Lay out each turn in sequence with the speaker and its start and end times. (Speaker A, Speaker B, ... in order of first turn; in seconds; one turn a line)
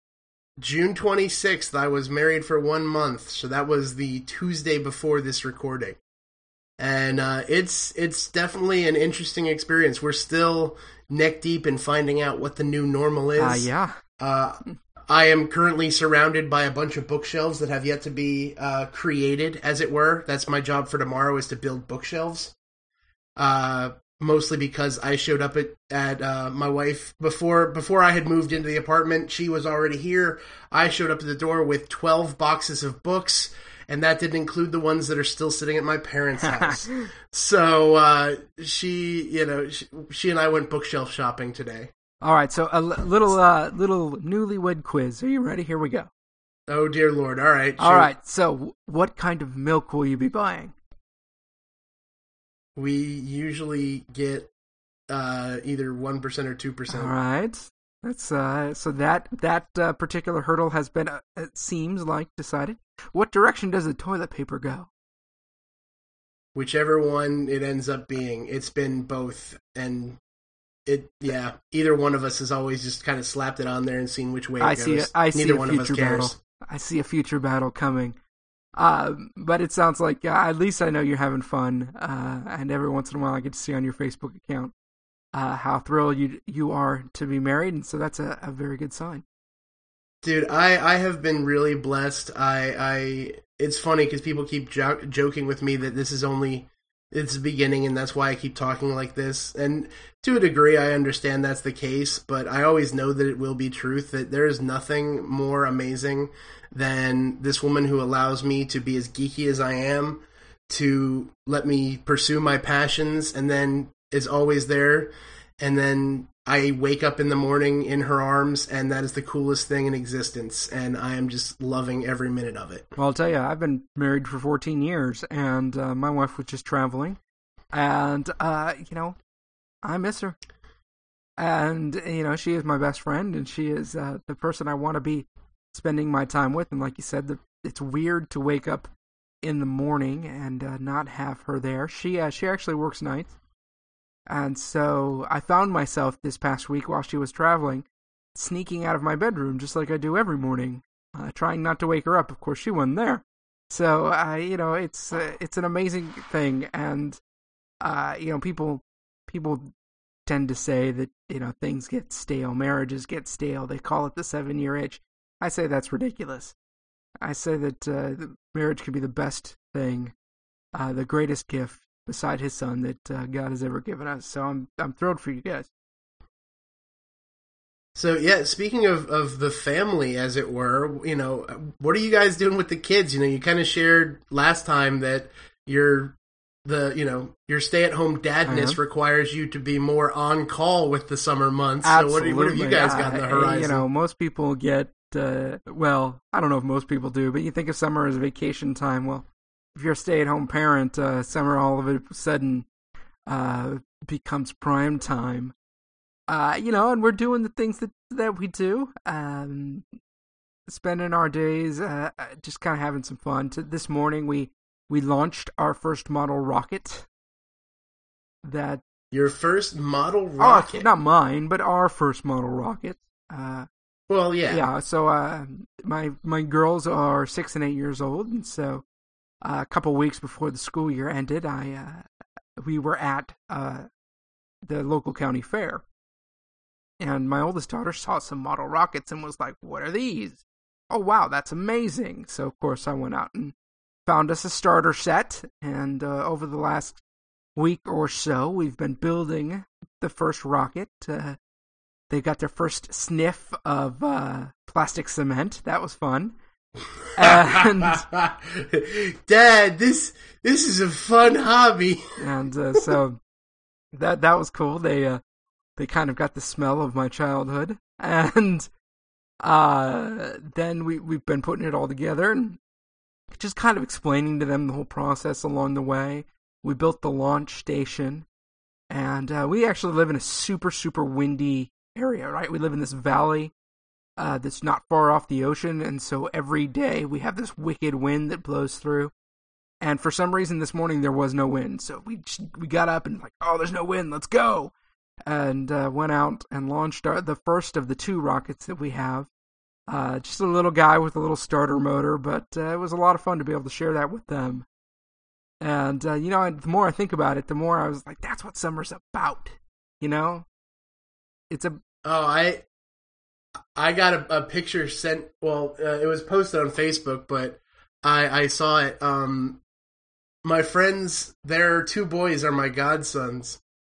Speaker A: 0.6-6.0
Speaker A: 6.8-13.7
Speaker B: 13.4-14.0
Speaker A: 14.2-22.6
Speaker A: 23.4-41.9
Speaker B: 36.5-37.0
Speaker B: 42.2-46.1
Speaker A: 46.7-48.1
Speaker B: 47.8-50.8
Speaker A: 52.8-54.5
Speaker A: 55.1-57.2
Speaker B: 56.9-64.9
Speaker A: 66.5-70.2
Speaker A: 70.9-76.4
Speaker B: 74.6-78.2
Speaker B: 78.8-84.7
Speaker B: 85.3-89.2
Speaker A: 90.2-122.9
Speaker B: 123.0-127.2
Speaker B: 127.7-129.2
Speaker B: 129.8-130.4
Speaker B: 131.4-138.9
Speaker B: 139.4-143.4
Speaker B: 144.3-157.2
Speaker B: 157.8-159.7
Speaker B: 160.3-166.6
Speaker B: 167.2-170.1
Speaker B: 170.8-175.7
Speaker A: 178.0-193.8
Speaker B: 188.5-188.8
Speaker B: 191.8-202.7
Speaker B: 203.3-205.6
Speaker B: 206.3-209.8
Speaker B: 210.7-217.1
Speaker B: 218.4-218.8
Speaker A: 219.1-220.9
Speaker B: 220.4-223.7
Speaker A: 224.1-224.7
Speaker B: 224.5-228.8
Speaker B: 229.4-232.1
Speaker B: 232.6-233.9
Speaker B: 234.7-235.8
Speaker B: 237.0-243.6
Speaker B: 244.1-247.0
Speaker B: 247.6-251.4
Speaker B: 252.1-256.4
Speaker B: 257.2-258.0
Speaker A: 257.2-262.1
Speaker B: 262.2-263.2
Speaker B: 263.9-265.2
Speaker B: 265.8-268.7
Speaker B: 269.4-272.6
Speaker B: 273.3-278.3
Speaker B: 278.9-283.5
Speaker B: 284.2-289.1
Speaker B: 289.8-294.7
Speaker B: 295.3-299.3
Speaker B: 299.9-304.7
Speaker B: 305.6-310.5
Speaker B: 311.5-311.8
Speaker A: 312.1-312.6
Speaker A: 313.8-319.6
Speaker A: 320.4-323.6